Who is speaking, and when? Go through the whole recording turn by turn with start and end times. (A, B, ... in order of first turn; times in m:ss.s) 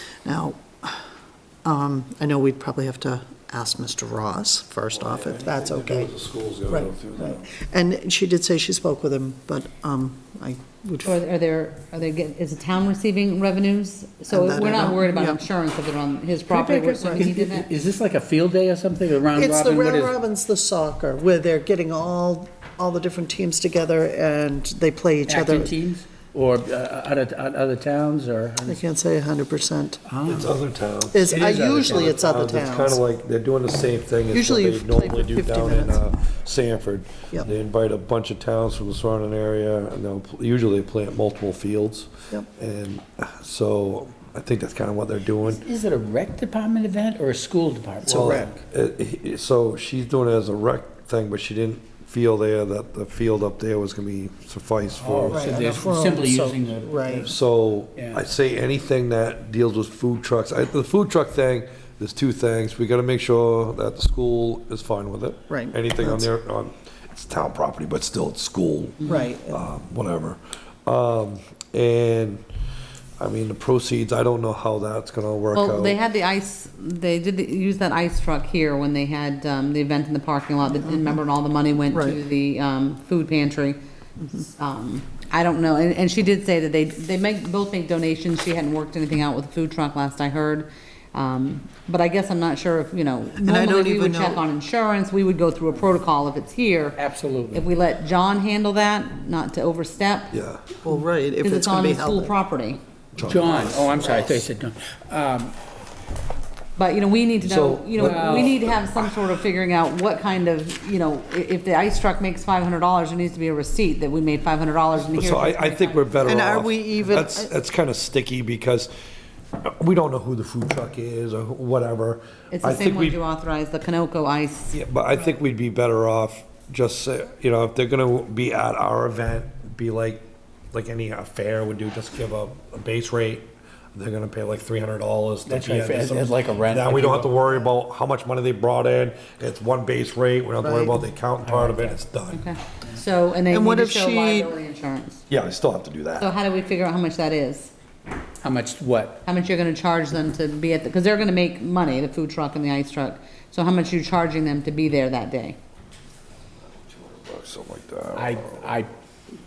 0:00.2-0:01.0 A
0:01.6-0:06.1 A
0:05.0-0:07.5 B
0:06.7-0:11.2 A
0:11.0-0:17.7 C
0:14.3-0:15.4 A
0:16.5-0:20.2 D
0:19.3-0:25.7 A
0:25.3-0:28.8 D
0:28.6-0:30.0 A
0:30.1-0:30.6 D
0:30.3-0:45.6 B
0:31.1-0:33.0 A
0:31.3-0:32.1 D
0:34.3-0:36.1 A
0:45.5-0:48.5 D
0:48.0-0:55.6 B
0:48.1-0:48.6 A
0:55.0-0:57.3 D
0:55.3-0:57.3 A
0:57.2-1:12.4 B
1:05.5-1:06.3 A
1:09.1-1:09.6 A
1:13.2-1:16.0 B
1:15.5-1:23.8 C
1:20.8-1:21.1 A
1:21.9-1:22.2 A
1:24.4-1:37.0 C
1:33.4-1:34.4 A
1:37.0-1:37.6 D
1:37.5-1:40.4 C
1:40.3-1:40.6 B
1:40.8-1:42.4 A
1:41.4-1:42.8 C
1:43.2-1:44.0 B
1:43.2-1:45.6 D
1:46.8-1:56.4 C
1:47.4-1:49.2 B
1:48.0-1:48.5 D
1:55.1-1:58.9 B
1:56.2-1:57.5 A
1:59.6-2:03.2 B
2:02.5-2:04.8 C
2:04.7-2:22.4 B
2:15.5-2:17.5 D
2:20.6-2:21.0 A
2:21.4-2:22.0 D
2:22.3-2:25.2 C
2:23.5-2:24.5 A
2:25.3-2:26.3 B
2:26.2-2:27.7 C
2:28.4-2:29.2 D
2:29.2-2:35.6 C
2:36.8-2:38.7 B
2:38.2-2:38.9 D